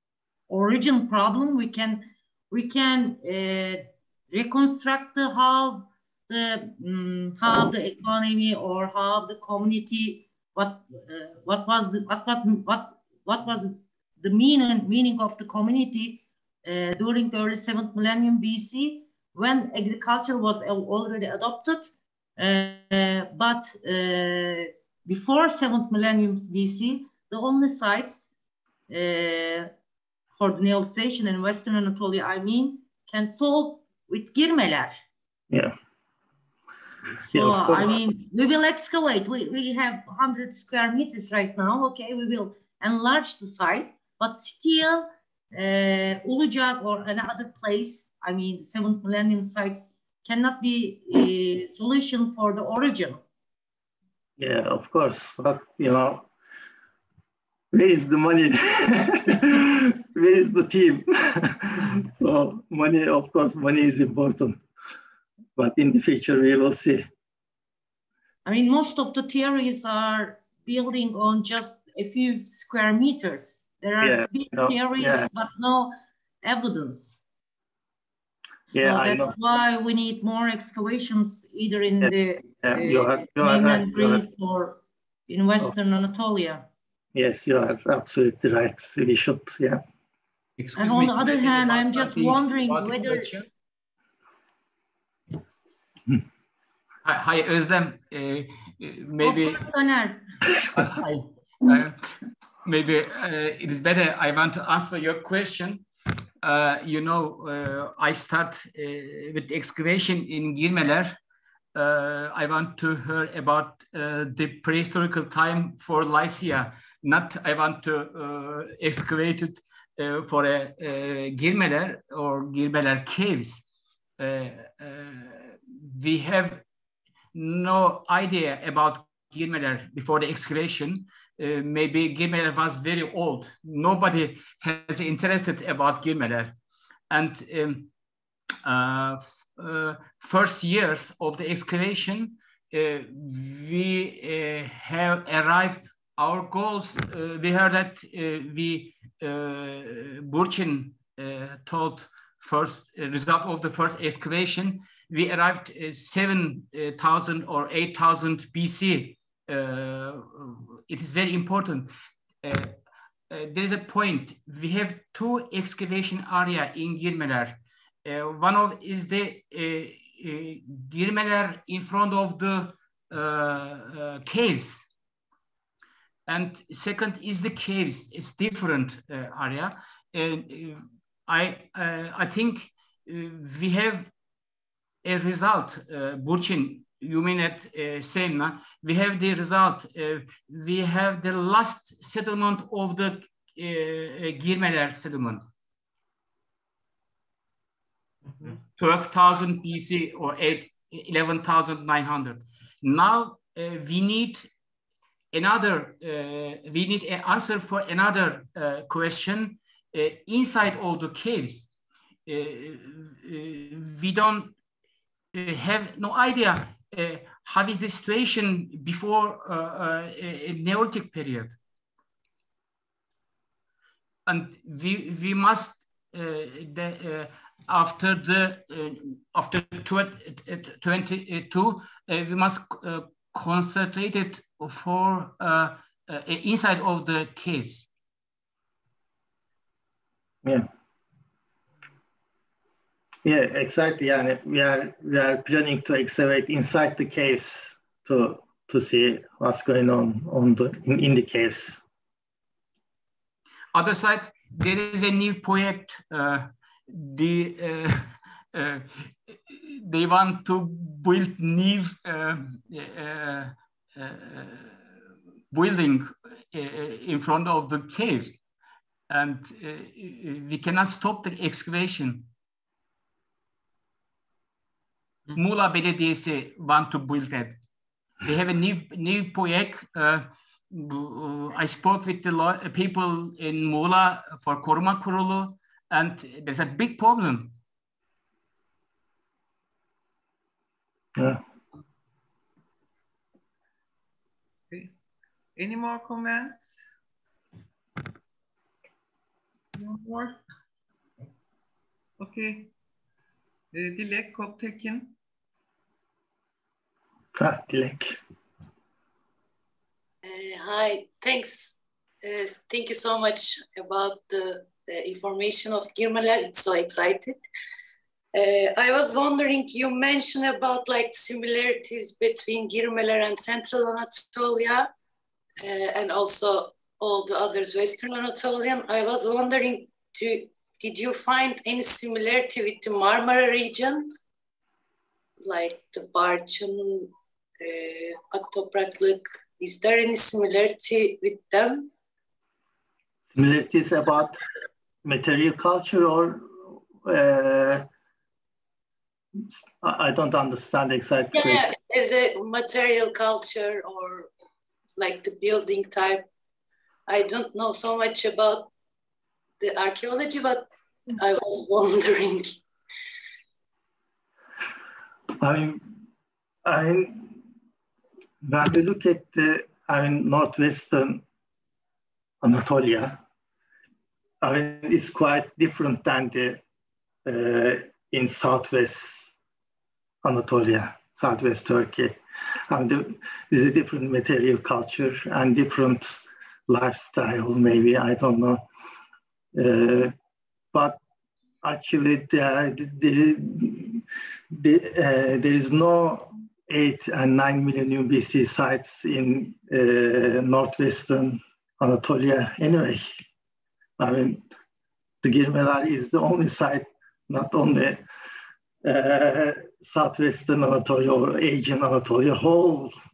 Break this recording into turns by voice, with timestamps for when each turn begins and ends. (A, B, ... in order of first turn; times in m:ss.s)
0:00.5-0:28.3 A
0:28.9-0:29.7 A
0:30.3-0:35.0 A
0:37.1-0:53.2 A
0:37.3-0:38.0 B
0:54.4-0:56.3 B
0:57.7-1:04.6 B
1:05.6-1:07.0 B
1:08.4-1:17.2 A
1:14.0-1:15.3 B
1:18.7-1:26.7 A
1:18.7-1:19.3 B
1:22.0-1:24.2 B
1:27.1-1:29.8 B
1:30.6-1:33.5 C
1:30.8-1:33.4 A
1:37.0-1:39.7 C
1:39.2-1:40.2 A
1:40.7-1:42.0 C
1:42.6-1:45.9 C
1:46.4-1:51.2 C
1:51.7-2:03.6 C
2:04.2-2:06.6 C
2:07.3-2:16.6 C
2:17.1-2:17.9 C
2:18.6-2:42.7 C
2:43.3-2:54.8 C
2:56.3-3:04.1 C
3:05.0-3:15.4 C
3:18.4-3:24.5 C
3:25.3-3:31.7 C
3:32.3-3:34.6 C
3:35.3-3:41.6 C
3:44.2-3:57.9 C
4:03.2-4:11.8 B
4:13.7-4:24.8 C
4:25.5-4:28.4 C
4:29.1-4:32.3 C
4:35.3-4:37.6 C
4:38.2-4:47.5 C
4:51.2-4:51.4 B
4:54.7-4:54.9 D
4:55.6-4:56.8 D
4:59.8-5:00.4 D
5:02.2-5:02.7 D
5:03.7-5:05.1 D
5:07.4-5:08.2 B
5:10.2-5:17.4 E
5:18.3-5:24.9 E
5:25.6-5:34.1 E
5:35.4-5:41.9 E
5:43.3-5:44.4 B
5:45.0-5:46.5 B
5:47.0-5:47.8 B
5:49.8-5:51.7 B
5:51.3-5:54.3 E
5:55.0-5:56.3 E
5:57.1-5:58.7 E
5:59.6-6:02.6 E
6:05.4-6:06.0 B
6:06.6-6:07.4 B
6:08.4-6:11.2 B
6:12.4-6:13.2 B
6:14.4-6:16.6 B
6:17.2-6:19.3 B
6:20.2-6:22.2 B
6:22.7-6:26.2 B
6:26.7-6:28.6 B
6:29.6-6:30.1 B
6:30.7-6:31.0 B
6:31.6-6:43.0 B
6:44.0-6:44.4 B
6:45.2-6:48.0 B
6:48.8-6:52.9 B